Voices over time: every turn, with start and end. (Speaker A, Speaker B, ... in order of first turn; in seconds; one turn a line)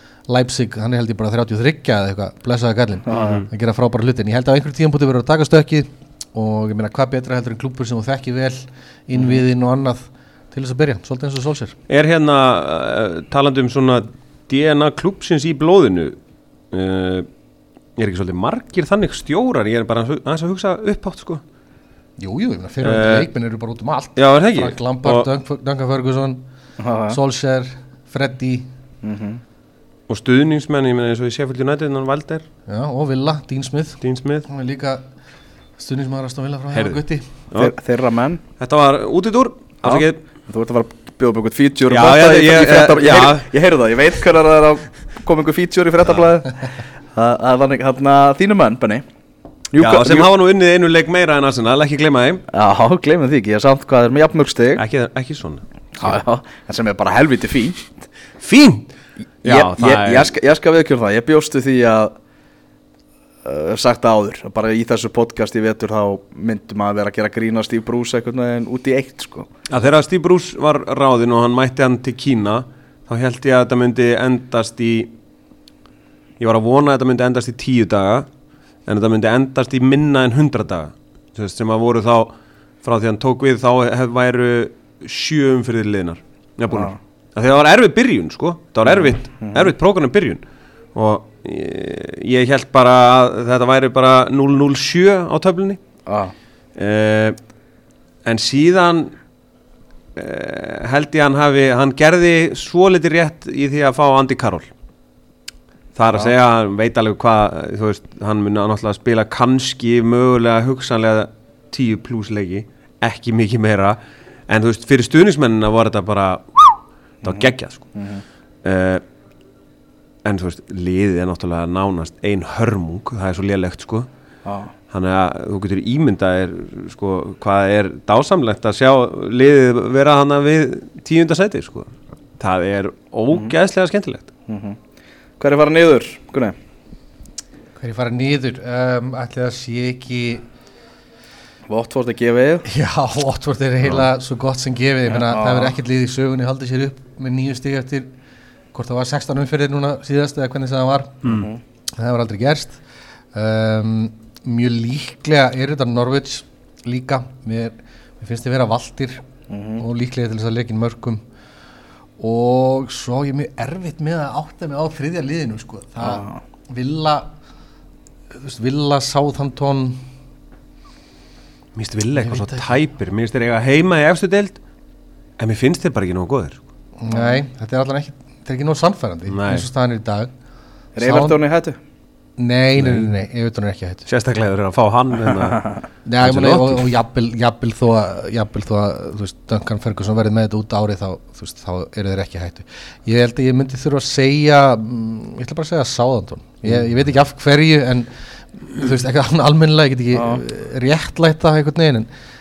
Speaker A: 0.3-11.8
Speaker B: 3.1-3.4
Speaker C: 3.1-3.5
Speaker C: 11.9-16.2
Speaker C: 16.7-17.3
Speaker C: 18.0-21.4
Speaker A: 22.2-26.4
Speaker C: 22.8-23.3
Speaker C: 24.2-25.3
Speaker B: 26.8-27.2
Speaker A: 27.1-28.7
Speaker B: 29.0-29.4
Speaker C: 30.1-32.5
Speaker A: 32.7-35.0
Speaker C: 34.0-34.5
Speaker A: 35.8-37.3
Speaker C: 36.7-37.0
Speaker B: 37.5-38.4
Speaker C: 38.6-40.2
Speaker B: 39.8-49.0
Speaker C: 41.9-43.5
Speaker B: 49.7-50.3
Speaker C: 49.8-52.4
Speaker B: 52.5-54.8
Speaker C: 54.8-56.2
Speaker B: 56.0-58.0
Speaker C: 58.4-58.9
Speaker C: 59.4-60.3
Speaker B: 59.4-62.1
Speaker B: 63.4-69.5
Speaker C: 69.7-75.1
Speaker C: 76.4-78.3
Speaker C: 78.9-90.4
Speaker B: 88.9-89.7
Speaker C: 91.0-95.8
Speaker B: 96.1-96.3
Speaker C: 96.8-97.4
Speaker C: 98.2-99.2
Speaker C: 100.2-104.7
Speaker C: 106.0-117.9
Speaker B: 117.2-118.2
Speaker C: 118.6-119.0
Speaker C: 120.2-124.1
Speaker B: 124.5-124.7
Speaker C: 124.9-134.3
Speaker B: 134.5-134.8
Speaker B: 135.4-136.6
Speaker A: 137.8-140.4
Speaker B: 141.7-142.7
Speaker A: 142.7-148.1
Speaker B: 145.1-145.7
Speaker A: 148.7-151.2
Speaker C: 151.2-151.5
Speaker B: 151.3-151.6
Speaker A: 152.0-152.8
Speaker A: 153.3-159.2
Speaker B: 159.5-159.8
Speaker A: 159.8-161.2
Speaker A: 162.2-167.3
Speaker B: 166.0-166.4
Speaker A: 168.3-170.0
Speaker C: 171.8-174.6
Speaker A: 172.2-172.7
Speaker C: 175.4-176.6
Speaker A: 177.0-180.3
Speaker C: 179.3-179.7
Speaker B: 181.0-181.8
Speaker A: 181.0-181.4
Speaker A: 182.4-184.1
Speaker C: 182.8-183.2
Speaker C: 184.1-185.6
Speaker A: 186.1-198.1
Speaker C: 186.2-186.9
Speaker A: 198.6-202.1
Speaker B: 200.1-200.4